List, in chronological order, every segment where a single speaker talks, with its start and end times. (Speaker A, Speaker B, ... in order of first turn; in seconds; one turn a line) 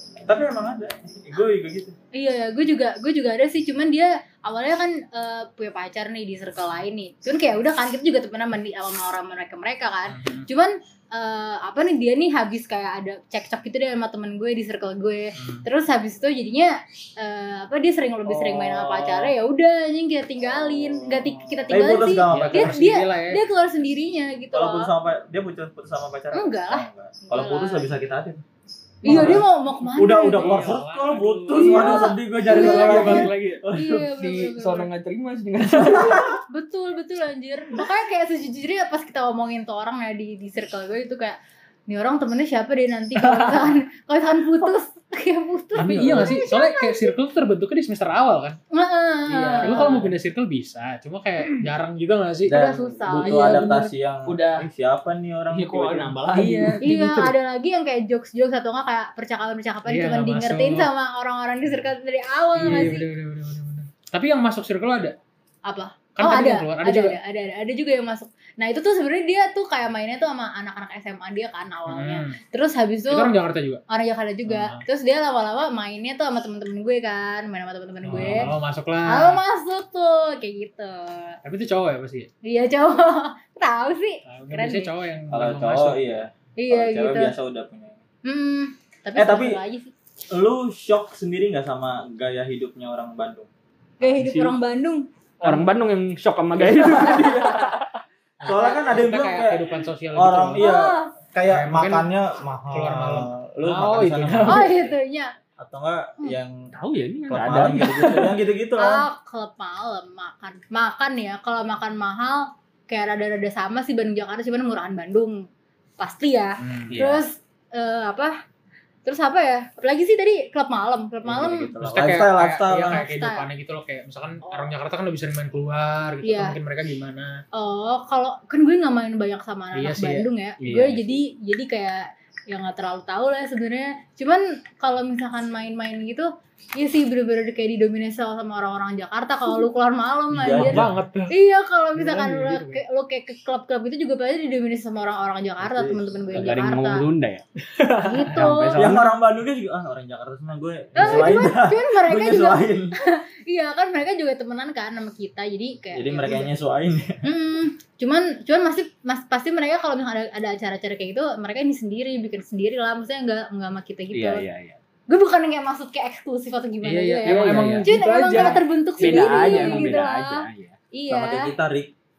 Speaker A: 0.2-1.9
Speaker B: 2.1-24.9
Speaker C: 10.1-10.5
Speaker A: 18.3-19.3
Speaker A: 20.4-22.8
Speaker C: 22.3-23.4
Speaker A: 24.5-28.4
Speaker B: 26.3-27.9
Speaker B: 29.0-30.7
Speaker A: 29.0-34.1
Speaker C: 29.1-29.4
Speaker C: 30.1-33.3
Speaker B: 31.5-34.9
Speaker D: 31.6-36.4
Speaker A: 35.9-36.3
Speaker B: 36.1-41.4
Speaker B: 41.9-47.1
Speaker D: 43.2-43.7
Speaker C: 45.7-48.6
Speaker B: 48.7-50.0
Speaker D: 49.3-50.1
Speaker C: 49.6-52.6
Speaker A: 52.5-56.2
Speaker B: 52.5-53.6
Speaker C: 53.2-53.9
Speaker D: 54.3-54.7
Speaker D: 55.5-56.9
Speaker C: 56.3-57.3
Speaker B: 56.8-63.1
Speaker C: 59.9-60.9
Speaker C: 62.6-65.2
Speaker B: 65.7-73.3
Speaker C: 66.2-67.2
Speaker C: 71.9-72.4
Speaker C: 73.1-73.8
Speaker B: 73.9-78.5
Speaker C: 74.5-74.8
Speaker C: 78.1-79.4
Speaker B: 79.0-81.4
Speaker C: 81.4-82.3
Speaker B: 82.4-84.9
Speaker C: 84.2-86.2
Speaker A: 85.3-88.0
Speaker B: 86.6-87.3
Speaker B: 88.2-89.9
Speaker A: 89.1-89.6
Speaker A: 90.3-93.5
Speaker B: 94.0-95.1
Speaker D: 94.0-94.6
Speaker D: 95.4-97.9
Speaker C: 96.6-97.3
Speaker C: 98.4-100.7
Speaker A: 98.4-104.9
Speaker B: 98.5-98.8
Speaker B: 100.6-101.1
Speaker C: 101.5-102.1
Speaker C: 102.7-104.8
Speaker B: 104.5-105.3
Speaker A: 105.6-106.7
Speaker D: 106.7-108.3
Speaker A: 107.3-109.0
Speaker B: 108.8-115.4
Speaker B: 116.0-118.3
Speaker A: 116.6-117.2
Speaker D: 116.9-117.2
Speaker B: 119.0-121.7
Speaker A: 121.2-123.1
Speaker C: 121.8-127.4
Speaker B: 122.9-123.5
Speaker B: 126.2-126.5
Speaker B: 127.5-147.0
Speaker C: 129.7-130.3
Speaker D: 130.6-131.2
Speaker A: 140.3-140.9
Speaker C: 140.4-141.3
Speaker C: 141.9-142.8
Speaker A: 145.6-146.0
Speaker D: 146.3-149.1
Speaker B: 148.0-149.0
Speaker A: 148.7-152.9
Speaker B: 150.9-156.5
Speaker A: 155.9-157.2
Speaker B: 157.2-164.4
Speaker D: 164.1-164.8
Speaker B: 165.1-171.5
Speaker C: 166.8-169.9
Speaker D: 167.2-170.8
Speaker A: 171.1-171.9